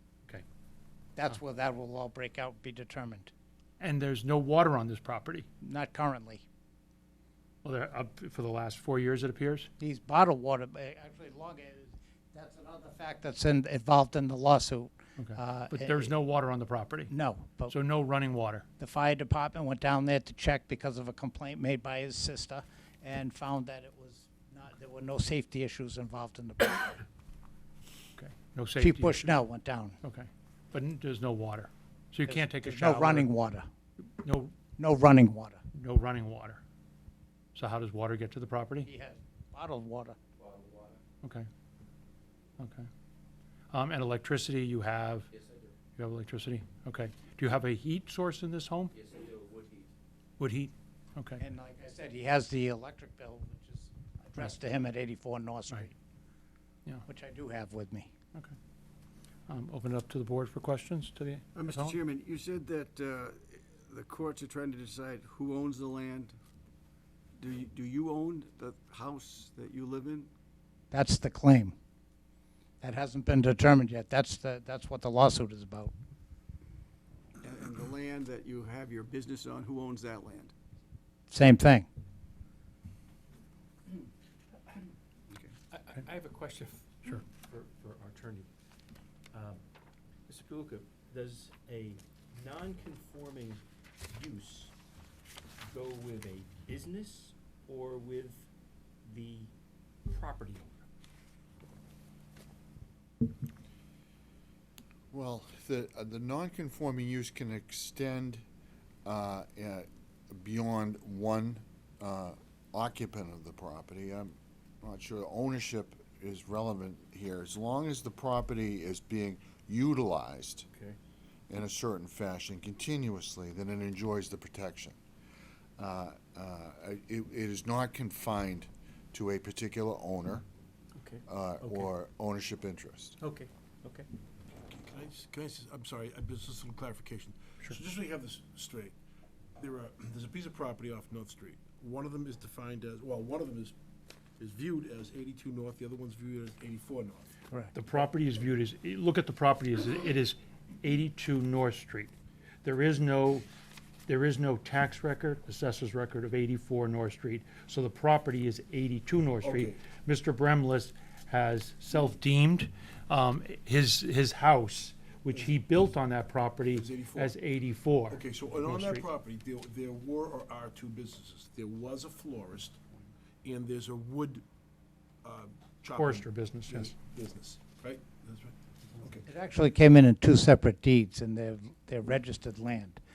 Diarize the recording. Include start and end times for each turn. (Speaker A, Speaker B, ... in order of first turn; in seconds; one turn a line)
Speaker A: 1.1-3.3
Speaker B: 3.8-5.5
Speaker A: 5.6-6.4
Speaker B: 7.6-9.7
Speaker A: 9.8-16.1
Speaker B: 15.2-17.1
Speaker A: 17.1-17.8
Speaker B: 17.7-18.6
Speaker A: 18.8-27.0
Speaker B: 28.2-29.3
Speaker A: 28.8-30.0
Speaker B: 30.0-33.3
Speaker A: 32.3-33.7
Speaker B: 34.2-34.5
Speaker A: 34.8-35.6
Speaker B: 35.7-36.6
Speaker B: 37.5-38.9
Speaker A: 38.8-40.2
Speaker C: 40.6-40.9
Speaker B: 41.2-41.5
Speaker B: 42.6-42.9
Speaker B: 43.7-45.3
Speaker B: 46.0-49.0
Speaker C: 49.1-49.8
Speaker B: 50.4-51.4
Speaker A: 51.4-55.9
Speaker A: 57.1-58.1
Speaker B: 59.5-61.9
Speaker D: 61.5-66.4
Speaker D: 67.4-70.3
Speaker A: 70.9-71.8
Speaker A: 72.8-75.9
Speaker D: 77.4-80.5
Speaker A: 81.3-81.9
Speaker C: 85.7-88.5
Speaker C: 89.3-89.6
Speaker C: 90.3-94.7
Speaker C: 95.6-98.5
Speaker C: 99.0-99.5
Speaker C: 100.0-100.8
Speaker E: 105.1-108.4
Speaker E: 109.0-120.7
Speaker E: 121.5-125.0
Speaker E: 125.8-130.4
Speaker C: 131.0-131.9
Speaker E: 131.2-133.2
Speaker C: 133.2-134.1
Speaker F: 134.6-138.9
Speaker F: 139.6-143.7
Speaker F: 144.4-147.3
Speaker B: 147.7-152.1
Speaker B: 152.6-153.4
Speaker B: 154.1-169.1
Speaker F: 159.4-159.8
Speaker F: 166.7-167.3
Speaker F: 168.1-172.8
Speaker F: 173.4-174.4
Speaker F: 175.2-179.2
Speaker B: 175.9-176.9
Speaker A: 179.2-183.0